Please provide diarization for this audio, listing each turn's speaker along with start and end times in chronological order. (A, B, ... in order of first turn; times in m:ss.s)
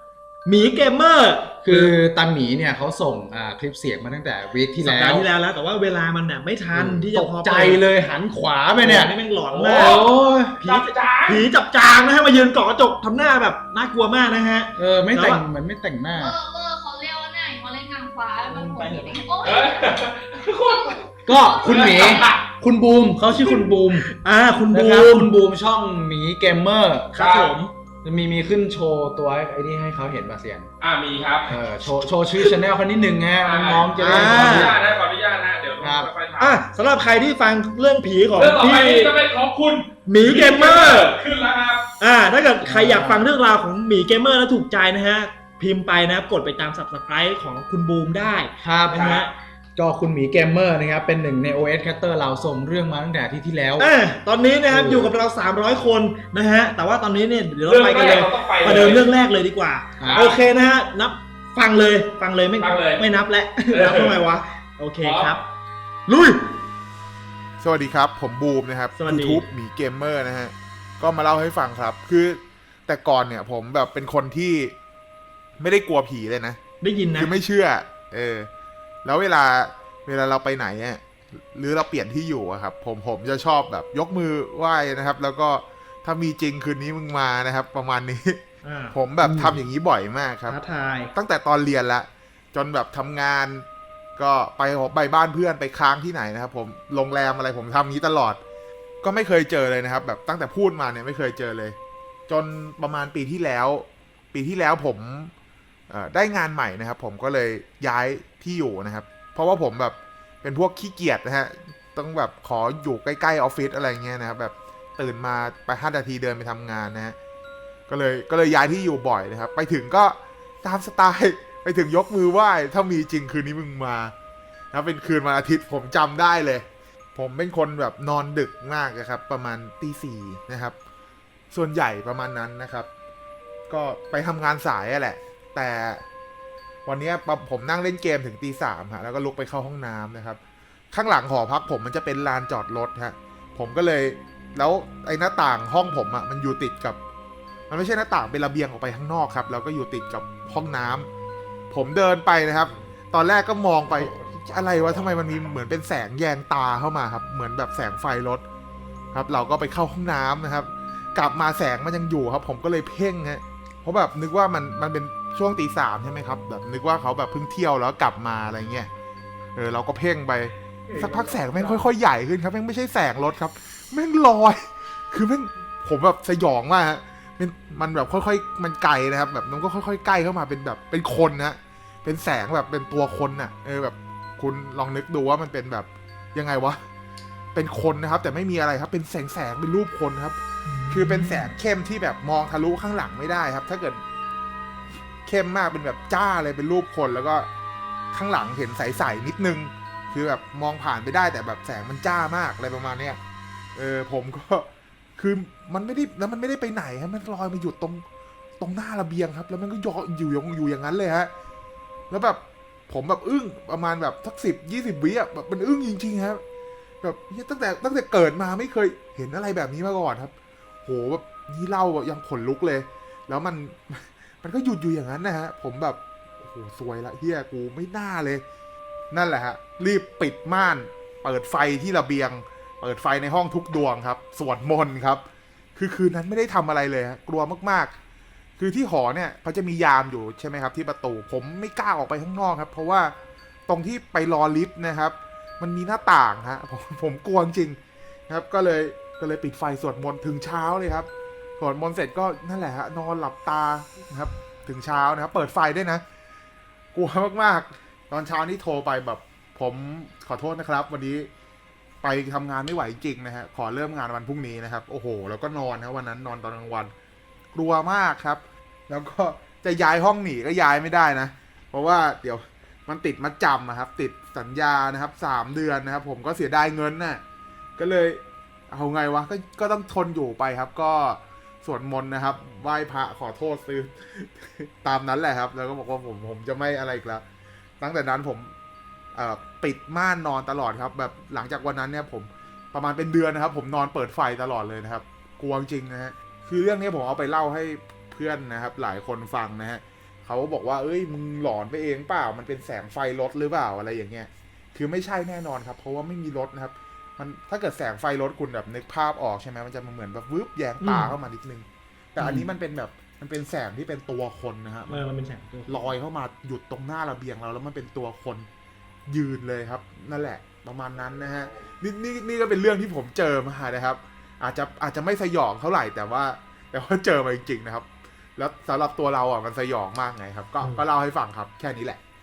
0:00.4-0:01.9 A
0:01.6-0:05.3 B
0:04.8-0:07.8 A
0:06.7-0:09.1 B
0:08.8-0:10.0 A
0:09.4-0:10.1 C
0:09.8-0:10.6 B
0:10.6-0:15.4 A
0:10.6-0:11.5 C
0:14.8-0:16.4 B
0:16.2-0:19.9 D
0:18.5-0:19.3 A
0:19.4-0:21.1 C
0:20.6-0:22.3 D
0:21.3-0:24.1 B
0:21.6-0:22.4 C
0:23.3-0:25.3 A
0:24.7-0:27.1 B
0:27.1-0:27.7 A
0:27.2-0:27.5 C
0:28.0-0:30.7 B
0:30.8-0:31.6 C
0:31.4-0:34.8 B
0:33.4-0:36.6 C
0:34.0-0:34.8 A
0:35.8-0:36.1 B
0:36.4-0:39.2 A
0:38.4-0:41.8 C
0:40.1-0:41.2 A
0:42.0-0:49.3 A
0:42.6-0:43.3 B
0:48.6-0:49.1 B
0:48.9-0:49.3 C
0:49.8-0:53.9 B
0:53.8-1:05.4 A
0:54.7-0:55.1 B
0:57.6-0:59.1 C
1:00.0-1:00.2 B
1:00.0-1:00.4 C
1:02.6-1:03.0 C
1:03.7-1:04.2 C
1:05.0-1:05.4 C
1:06.1-1:06.6 A
1:07.6-1:14.8 E
1:09.0-1:09.4 A
1:15.6-1:16.6 E
1:16.8-1:17.3 A
1:17.2-1:18.5 E
1:19.0-1:28.4 E
1:28.6-1:29.6 A
1:28.9-1:30.6 E
1:30.5-1:31.1 A
1:31.1-1:33.6 E
1:34.2-1:38.4 E
1:39.0-1:41.8 E
1:42.3-1:45.3 E
1:45.9-1:57.2 E
1:57.9-2:04.1 E
2:04.7-2:10.8 E
2:11.5-2:12.9 E
2:13.7-2:16.0 E
2:16.9-2:20.4 E
2:20.9-2:27.0 E
2:27.7-2:31.1 E
2:31.7-2:38.4 E
2:39.1-2:48.9 E
2:49.6-3:06.8 E
2:50.9-2:51.8 C
3:07.5-3:10.4 E
3:10.7-3:11.5 A
3:10.9-3:14.0 E
3:15.2-3:17.5 E
3:18.1-3:23.2 E
3:23.8-3:28.0 E
3:28.6-3:31.3 E
3:32.1-3:36.4 E
3:37.0-3:40.3 E
3:40.8-3:48.4 E
3:49.1-3:55.2 E
3:55.8-3:57.9 E
3:58.6-4:03.2 E
4:03.7-4:11.1 E
4:11.6-4:16.0 E
4:16.9-4:21.3 E
4:22.0-4:26.9 E
4:27.5-4:37.2 E
4:37.8-4:47.2 E
4:47.8-4:48.5 E
4:49.2-5:15.0 E
5:10.8-5:11.2 A
5:12.2-5:12.5 A
5:14.9-5:16.0 A
5:15.7-5:18.5 E
5:19.1-5:32.0 E